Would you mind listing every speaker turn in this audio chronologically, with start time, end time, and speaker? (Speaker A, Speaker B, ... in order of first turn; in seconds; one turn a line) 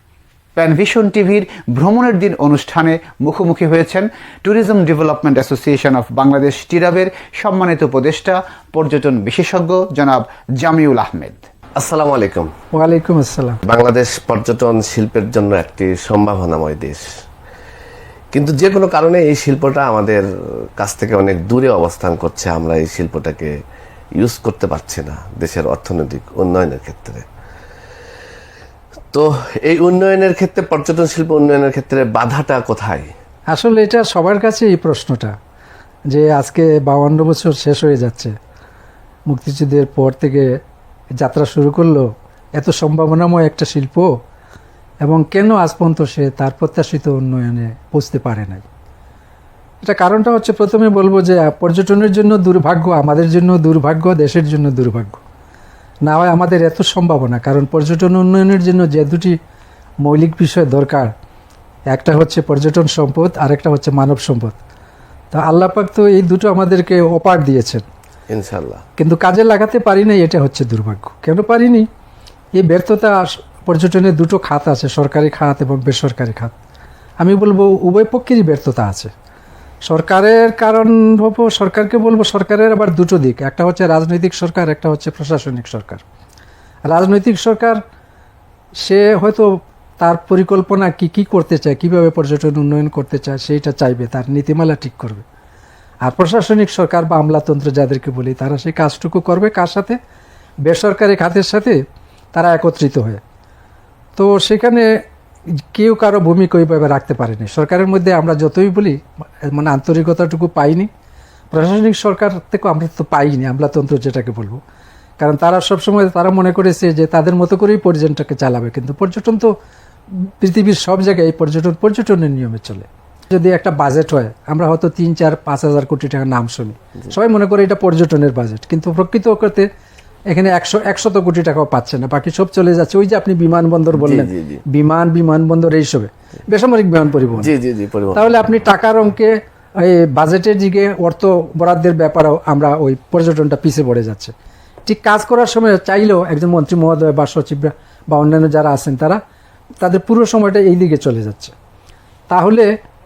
Speaker A: 0.6-11.4
Speaker B: 11.8-12.5
Speaker C: 12.7-13.6
Speaker B: 13.6-17.1
Speaker B: 18.3-20.2
Speaker B: 20.8-23.5
Speaker B: 24.2-27.2
Speaker B: 29.1-33.1
Speaker C: 33.5-35.3
Speaker C: 36.1-38.3
Speaker C: 39.3-40.5
Speaker C: 41.2-42.0
Speaker C: 42.6-44.1
Speaker C: 45.0-48.6
Speaker C: 49.8-55.2
Speaker C: 56.1-59.3
Speaker C: 60.0-61.1
Speaker C: 61.9-64.6
Speaker C: 65.3-67.8
Speaker B: 68.3-68.8
Speaker C: 69.0-71.9
Speaker C: 72.6-76.5
Speaker C: 77.2-79.1
Speaker C: 79.9-86.0
Speaker C: 86.9-87.8
Speaker C: 88.8-89.5
Speaker C: 90.0-95.2
Speaker C: 96.0-100.0
Speaker C: 100.7-101.8
Speaker C: 102.3-103.2
Speaker C: 104.2-104.9
Speaker C: 105.6-110.9
Speaker C: 111.5-114.6
Speaker C: 115.2-119.5
Speaker C: 120.1-129.7
Speaker C: 130.3-137.5
Speaker B: 133.9-134.6
Speaker B: 137.4-138.3
Speaker C: 138.1-144.3
Speaker C: 144.9-149.2
Speaker C: 149.8-151.5
Speaker C: 152.3-152.7